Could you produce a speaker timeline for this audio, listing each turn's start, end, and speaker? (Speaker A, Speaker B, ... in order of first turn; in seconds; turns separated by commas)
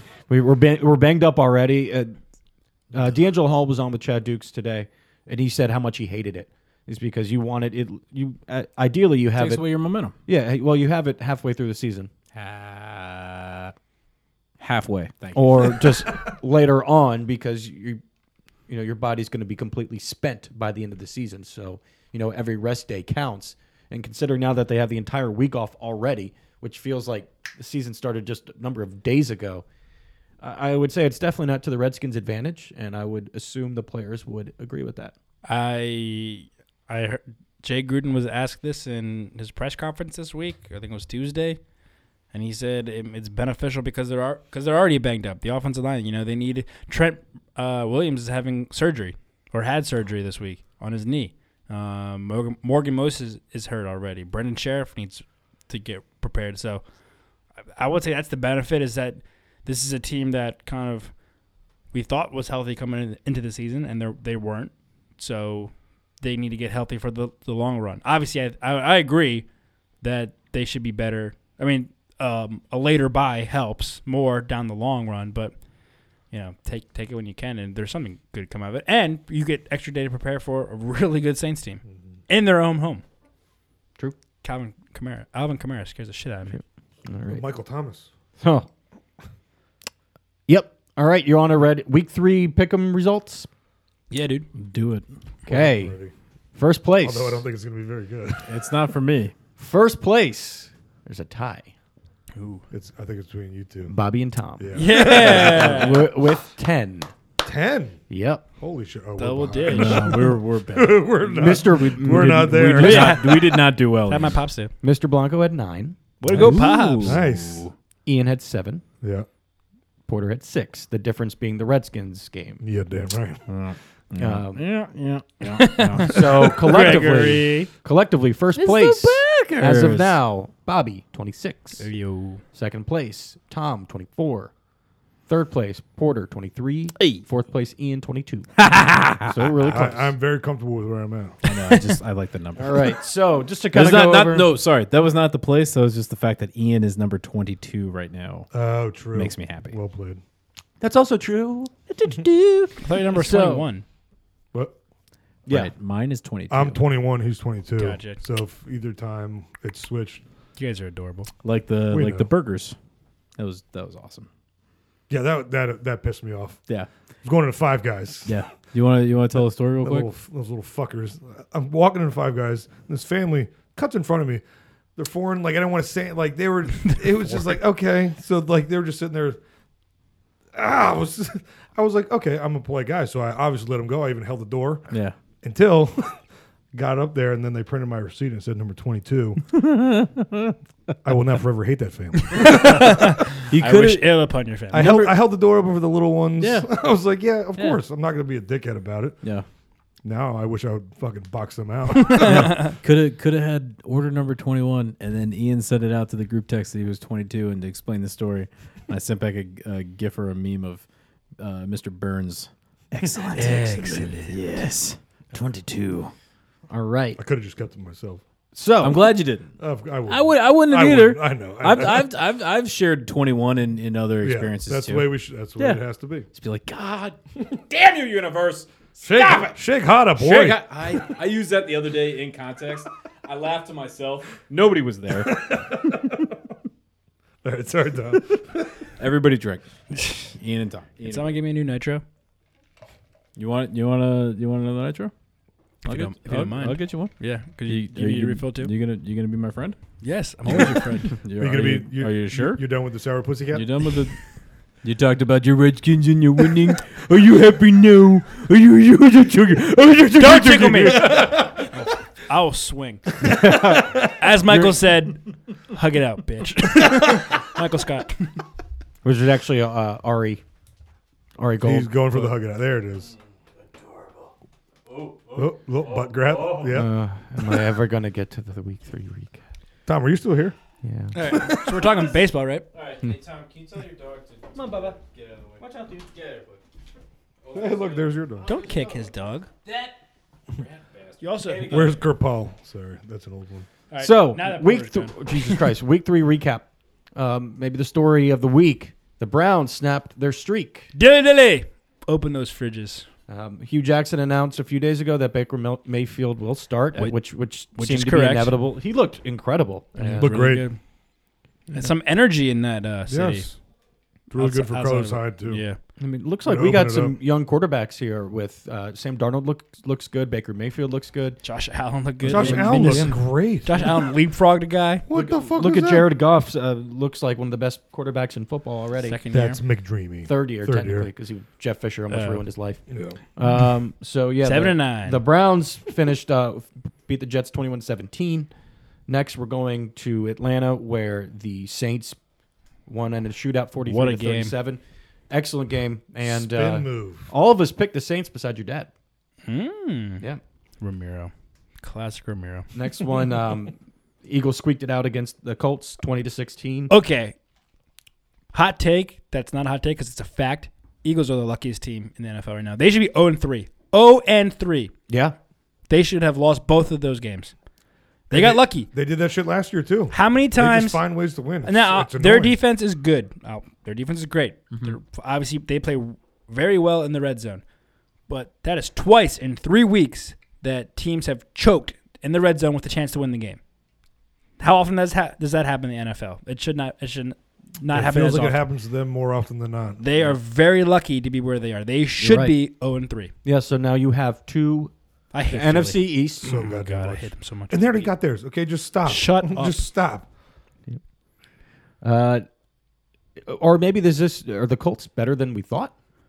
Speaker A: 0.3-2.1, Speaker A: 2.9-12.1, Speaker B: 9.3-10.1, Speaker B: 12.3-13.7, Speaker B: 14.6-16.1, Speaker A: 15.3-18.0, Speaker A: 18.7-29.6, Speaker A: 30.4-35.1, Speaker C: 35.4-41.6, Speaker C: 42.3-56.9, Speaker C: 57.8-61.2, Speaker C: 61.9-69.5, Speaker C: 70.0-75.6, Speaker C: 76.2-83.0, Speaker C: 84.4-86.5, Speaker A: 86.5-87.4, Speaker D: 87.3-88.1, Speaker A: 88.4-88.7, Speaker A: 90.5-93.5, Speaker C: 94.1-94.5, Speaker B: 94.5-95.1, Speaker D: 95.5-96.1, Speaker A: 95.5-96.0, Speaker A: 96.5-97.5, Speaker D: 97.0-98.6, Speaker B: 98.4-99.3, Speaker A: 99.6-101.7, Speaker C: 102.3-102.6, Speaker D: 102.7-103.9, Speaker A: 103.9-107.1, Speaker D: 104.6-106.0, Speaker C: 104.7-106.1, Speaker D: 107.4-108.0, Speaker A: 108.1-108.5, Speaker D: 108.6-113.3, Speaker C: 109.2-110.2, Speaker B: 109.7-114.4, Speaker A: 111.3-113.1, Speaker C: 112.7-114.7, Speaker A: 114.8-116.0, Speaker C: 116.2-117.2, Speaker B: 116.3-117.7, Speaker D: 116.4-117.7, Speaker A: 118.0-118.8, Speaker D: 119.0-119.3, Speaker A: 120.1-122.6, Speaker D: 122.6-123.4, Speaker B: 123.5-127.3, Speaker A: 124.2-124.7, Speaker C: 125.5-127.7, Speaker A: 126.0-131.9, Speaker B: 128.5-130.2, Speaker C: 131.8-132.4, Speaker A: 132.5-134.5, Speaker A: 135.3-138.5, Speaker B: 138.6-139.6, Speaker A: 139.3-140.1, Speaker D: 139.6-141.4, Speaker B: 141.4-143.0, Speaker A: 142.6-144.5, Speaker B: 143.7-148.5, Speaker D: 148.5-150.2, Speaker B: 149.1-149.7, Speaker A: 150.8-153.7, Speaker B: 152.0-152.4, Speaker C: 152.8-153.8, Speaker D: 154.5-154.8, Speaker A: 155.4-155.7, Speaker B: 155.5-156.8, Speaker D: 156.5-160.2, Speaker C: 157.8-158.2, Speaker C: 160.6-161.3, Speaker B: 161.4-162.8, Speaker D: 161.9-162.3, Speaker B: 163.4-164.3, Speaker D: 165.1-166.6, Speaker D: 167.2-168.4, Speaker B: 168.2-170.1, Speaker D: 169.4-174.4, Speaker D: 174.9-179.4, Speaker D: 180.5-184.9, Speaker B: 184.9-185.2, Speaker D: 185.4-189.4, Speaker B: 189.5-190.6, Speaker D: 191.0-193.1, Speaker C: 192.3-194.8, Speaker B: 193.5-194.2, Speaker D: 194.7-199.2, Speaker B: 194.8-195.1, Speaker B: 196.4-196.7, Speaker B: 197.6-197.8, Speaker D: 200.0-202.8, Speaker C: 202.1-202.7, Speaker B: 202.2-210.8, Speaker B: 211.4-216.1, Speaker C: 213.3-214.3, Speaker A: 216.7-217.2, Speaker D: 217.2-218.2, Speaker A: 218.5-219.1, Speaker B: 218.8-219.5, Speaker D: 219.6-222.1, Speaker B: 220.1-225.8, Speaker D: 224.2-226.3, Speaker B: 226.3-229.6, Speaker D: 229.0-231.1, Speaker B: 230.2-236.2, Speaker D: 235.1-236.3, Speaker D: 237.4-238.9, Speaker B: 239.0-239.7, Speaker B: 240.2-241.3, Speaker C: 241.0-242.0, Speaker B: 243.3-245.1, Speaker C: 245.8-248.7, Speaker B: 245.8-249.8, Speaker C: 250.0-251.2, Speaker B: 250.4-252.6, Speaker D: 251.3-254.0, Speaker B: 253.5-254.2, Speaker B: 254.8-261.5, Speaker C: 260.2-263.2, Speaker D: 260.9-261.7, Speaker B: 263.2-263.9, Speaker D: 263.2-264.1, Speaker C: 264.1-268.4, Speaker A: 269.0-270.4, Speaker A: 271.4-272.3, Speaker D: 271.6-273.1, Speaker B: 273.1-274.3, Speaker B: 274.9-276.9, Speaker D: 275.3-276.9, Speaker A: 276.7-279.4, Speaker D: 279.9-280.6, Speaker A: 280.8-281.1, Speaker C: 281.1-282.7, Speaker B: 282.7-286.6, Speaker A: 284.5-284.9, Speaker B: 287.4-289.1, Speaker D: 287.5-288.4, Speaker C: 288.4-289.5, Speaker B: 289.6-290.0, Speaker B: 290.5-292.1, Speaker C: 291.2-291.8, Speaker D: 291.6-293.7, Speaker C: 293.9-295.6, Speaker A: 294.0-300.9, Speaker C: 300.9-303.1, Speaker A: 303.3-310.3, Speaker C: 306.9-308.6, Speaker C: 310.0-310.8, Speaker D: 310.2-310.7, Speaker D: 311.7-311.9, Speaker C: 311.7-313.5, Speaker D: 313.1-313.6, Speaker D: 314.3-315.7, Speaker C: 314.3-315.8, Speaker A: 316.0-321.4, Speaker D: 316.4-317.1, Speaker C: 321.4-325.1, Speaker D: 322.2-324.1, Speaker A: 322.3-323.2, Speaker D: 325.1-326.1, Speaker A: 325.1-329.2, Speaker C: 329.0-329.6, Speaker D: 329.3-331.1, Speaker A: 330.2-338.5, Speaker C: 332.1-332.4, Speaker D: 332.9-333.2, Speaker C: 334.4-335.2, Speaker A: 339.1-342.2, Speaker A: 342.9-348.9, Speaker C: 343.8-344.6, Speaker D: 346.2-347.3, Speaker C: 349.4-350.2, Speaker C: 350.8-352.7, Speaker A: 352.7-356.9, Speaker C: 356.9-357.3, Speaker C: 358.5-364.9, Speaker A: 365.1-365.4, Speaker C: 365.9-367.5, Speaker C: 368.3-368.9, Speaker D: 368.3-372.6, Speaker C: 370.1-371.0, Speaker C: 371.6-377.6, Speaker C: 378.3-383.6, Speaker C: 384.6-388.6, Speaker D: 387.9-390.3, Speaker C: 390.0-393.3, Speaker A: 392.2-392.6, Speaker A: 393.4-394.9, Speaker C: 395.3-398.1, Speaker A: 395.5-396.6, Speaker D: 396.4-400.3, Speaker C: 399.0-399.8, Speaker A: 402.0-402.5, Speaker A: 403.4-405.9